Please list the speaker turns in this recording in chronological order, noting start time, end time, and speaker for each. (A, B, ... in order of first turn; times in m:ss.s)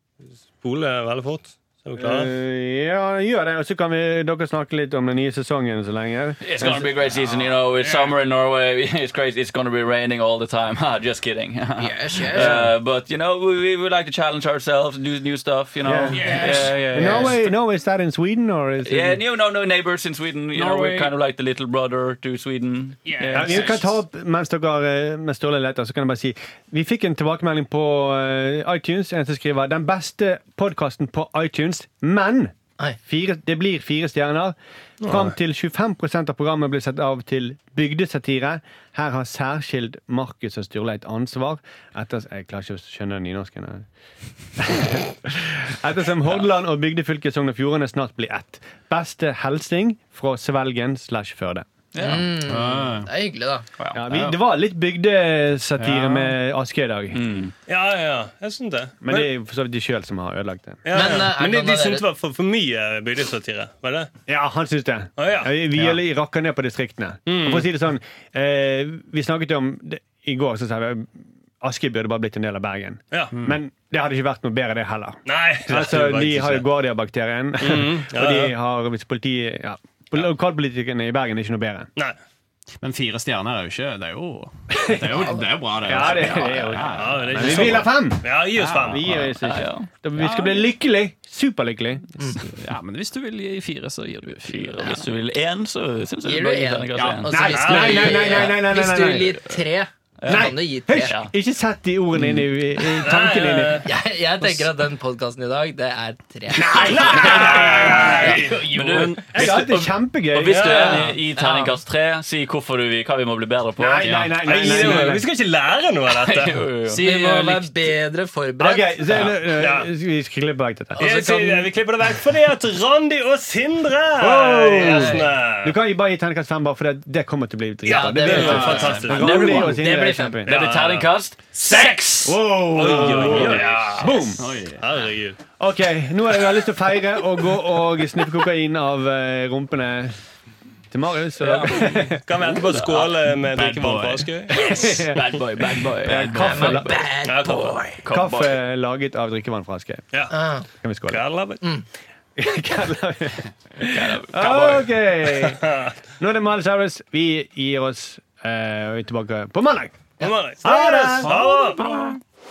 0:00.6-0:02.3 A
0:02.0-0:06.9 B
0:06.4-0:17.5 C
0:07.8-0:08.1 D
0:11.8-0:12.6 E
0:15.8-0:16.3 B
0:16.1-0:16.9 D
0:16.2-0:17.3 E
0:16.9-0:19.2 B
0:18.8-0:23.8 C
0:20.5-0:21.1 D
0:23.1-0:23.7 D
0:23.3-0:32.5 B
0:33.0-0:43.9 B
0:35.0-0:35.3 A
0:44.6-0:51.7 B
0:51.9-0:52.2 C
0:52.0-0:53.6 E
0:52.4-0:53.1 D
0:53.9-0:57.2 B
0:54.1-0:54.4 D
0:55.8-0:56.3 D
0:57.1-0:57.5 C
0:57.7-0:59.3 A
0:59.0-1:00.8 B
1:00.8-1:04.1 A
1:00.9-1:02.0 E
1:04.3-1:21.9 B
1:05.2-1:05.5 A
1:07.3-1:07.7 A
1:13.3-1:13.6 D
1:15.2-1:16.7 A
1:17.6-1:18.5 A
1:22.8-1:27.9 D
1:24.8-1:25.3 B
1:25.8-1:28.3 B
1:26.0-1:26.6 C
1:27.0-1:29.1 A
1:28.5-1:29.3 D
1:28.8-1:32.4 B
1:29.4-1:29.9 C
1:30.2-1:30.7 D
1:32.4-1:35.0 D
1:34.3-1:37.3 C
1:36.2-1:41.1 E
1:37.0-1:37.3 D
1:37.3-1:39.4 B
1:37.5-1:38.4 A
1:40.2-1:40.5 C
1:40.2-1:43.9 B
1:41.1-1:41.3 C
1:43.0-1:43.9 A
1:43.8-1:49.1 E
1:46.5-1:48.4 B
1:46.9-1:55.0 C
1:47.1-1:48.7 A
1:48.5-1:49.4 D
1:49.3-1:51.1 B
1:50.5-1:51.1 A
1:51.4-1:51.8 E
1:53.8-1:55.3 B
1:54.0-1:54.9 D
1:54.4-1:56.6 A
1:56.1-1:57.0 C
1:56.8-1:57.7 D
1:57.0-1:59.3 E
1:58.6-2:01.0 B
1:59.6-1:59.9 A
2:01.0-2:01.7 E
2:01.0-2:05.8 A
2:04.2-2:10.7 B
2:04.8-2:05.3 E
2:07.8-2:09.7 A
2:07.9-2:10.4 E
2:08.3-2:09.2 D
2:09.1-2:09.8 C
2:10.4-2:11.1 A
2:10.4-2:14.2 C
2:11.7-2:14.5 B
2:12.7-2:13.9 A
2:14.4-2:14.8 D
2:14.8-2:15.4 A
2:15.6-2:20.2 B
2:20.9-2:22.2 B
2:21.4-2:23.1 C
2:22.2-2:24.7 A
2:23.4-2:24.3 D
2:24.5-2:27.0 B
2:25.1-2:28.6 C
2:26.1-2:26.5 D
2:26.4-2:28.0 E
2:27.2-2:27.8 A
2:28.1-2:30.1 B
2:30.3-2:30.6 E
2:30.8-2:31.2 B
2:31.1-2:31.6 A
2:32.4-2:35.7 B
2:33.9-2:34.9 C
2:35.4-2:35.9 A
2:36.2-2:40.1 B
2:40.2-2:42.0 A
2:40.6-2:41.4 B
2:41.4-2:42.2 C